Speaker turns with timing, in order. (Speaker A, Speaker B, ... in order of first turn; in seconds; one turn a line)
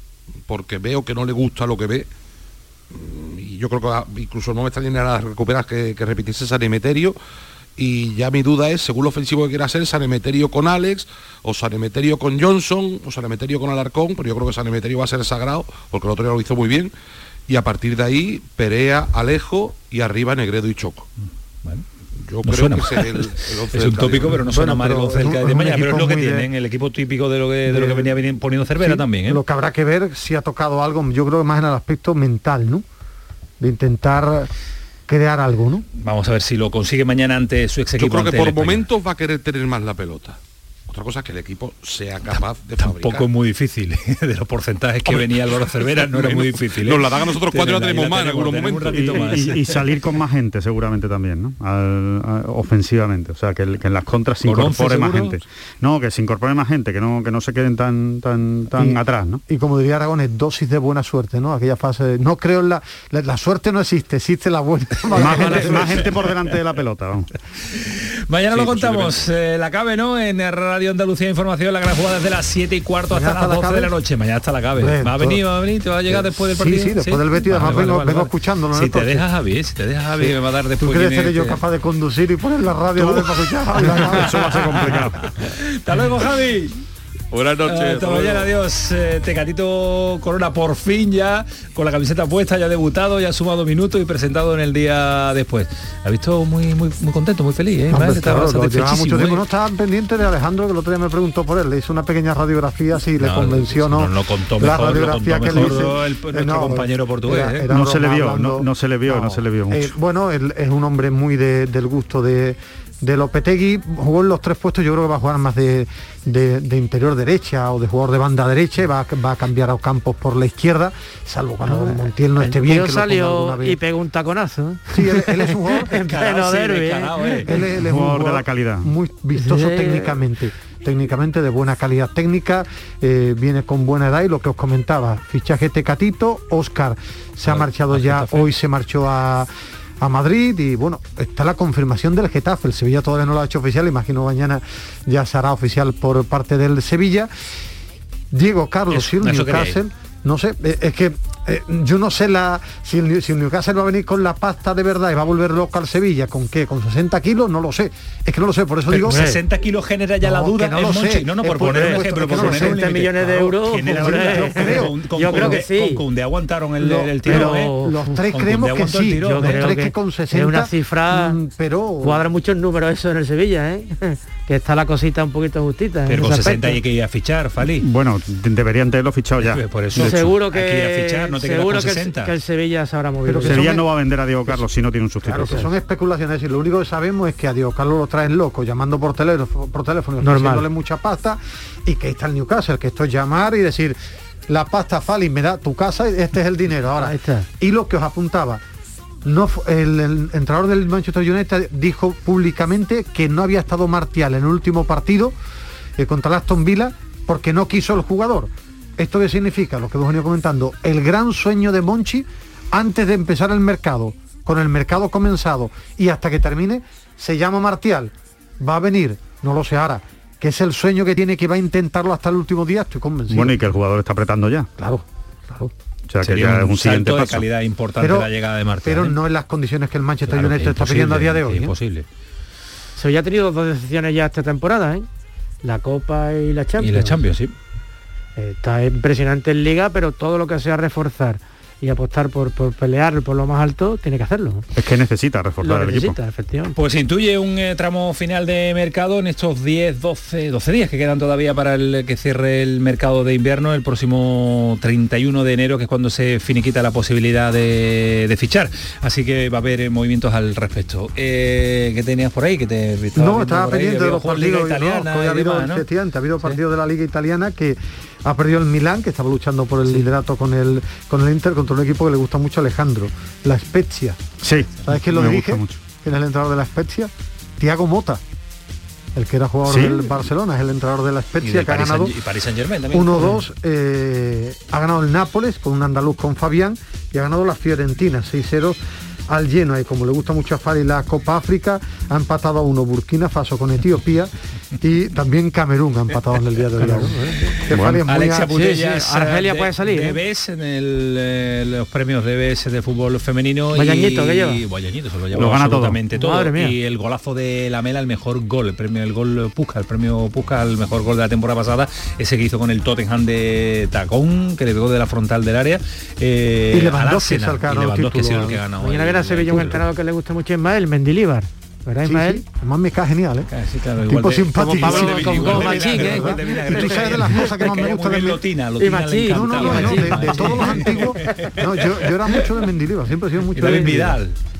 Speaker A: 0.5-2.1
Speaker A: 2.9-7.2
Speaker A: 7.8-16.9
Speaker A: 17.5-21.1
Speaker A: 22.2-24.5
Speaker B: 22.4-29.4
Speaker C: 24.4-26.5
Speaker C: 27.7-28.1
Speaker C: 28.8-32.8
Speaker C: 33.6-34.5
Speaker C: 35.1-35.9
Speaker B: 36.0-38.8
Speaker A: 38.0-43.3
Speaker B: 42.3-49.8
Speaker A: 45.0-49.2
Speaker D: 48.8-59.4
Speaker B: 54.4-55.4
Speaker C: 58.7-66.0
Speaker D: 65.1-67.3
Speaker B: 65.3-65.7
Speaker B: 67.6-81.6
Speaker A: 68.5-69.2
Speaker C: 73.1-73.9
Speaker C: 74.8-75.4
Speaker C: 76.1-79.2
Speaker C: 80.2-85.0
Speaker B: 83.8-84.2
Speaker D: 83.8-85.3
Speaker B: 85.2-86.8
Speaker A: 87.3-88.5
Speaker B: 87.6-99.4
Speaker C: 97.9-123.8
Speaker B: 103.2-107.6
Speaker D: 107.7-109.9
Speaker E: 121.6-127.4
Speaker C: 124.9-125.9
Speaker B: 125.8-127.5
Speaker C: 127.4-139.5
Speaker D: 127.8-128.9
Speaker E: 129.3-130.2
Speaker B: 137.4-138.5
Speaker C: 140.0-147.3
Speaker C: 148.3-159.3
Speaker B: 148.9-149.8
Speaker B: 158.9-169.7
Speaker E: 159.1-159.4
Speaker C: 160.2-165.6
Speaker E: 161.6-166.0
Speaker C: 166.8-172.2
Speaker E: 167.2-168.2
Speaker E: 169.2-171.4
Speaker E: 172.0-176.8
Speaker B: 176.1-177.9
Speaker D: 177.8-180.2
Speaker B: 179.4-182.3
Speaker E: 179.9-183.7
Speaker C: 183.2-183.9
Speaker D: 183.4-185.7
Speaker C: 185.2-194.0
Speaker E: 190.2-190.7
Speaker C: 194.5-198.6
Speaker E: 197.0-197.5
Speaker C: 199.2-205.3
Speaker C: 206.0-223.6
Speaker D: 223.3-224.7
Speaker C: 224.8-225.7
Speaker D: 226.1-227.4
Speaker B: 226.2-229.2
Speaker C: 228.0-228.3
Speaker C: 228.8-231.7
Speaker B: 230.3-232.1
Speaker E: 233.0-235.1
Speaker E: 235.6-237.2
Speaker B: 236.8-237.5
Speaker E: 238.3-244.7
Speaker D: 244.8-246.2
Speaker E: 245.6-246.8
Speaker B: 246.7-265.9
Speaker C: 263.1-274.3
Speaker D: 274.4-275.8
Speaker C: 274.8-278.2
Speaker C: 279.1-282.1
Speaker D: 279.6-280.0
Speaker B: 281.4-283.4
Speaker C: 282.9-298.5
Speaker E: 296.9-297.5
Speaker D: 297.7-298.0
Speaker B: 298.0-319.8
Speaker E: 298.5-300.2
Speaker E: 303.7-304.6
Speaker D: 305.3-306.0
Speaker E: 306.1-306.8
Speaker C: 316.7-318.6
Speaker E: 318.7-322.4
Speaker C: 322.0-323.5
Speaker B: 323.5-332.5
Speaker C: 324.1-328.4
Speaker E: 324.7-327.1
Speaker E: 328.8-330.7
Speaker C: 329.3-334.2
Speaker B: 333.5-334.4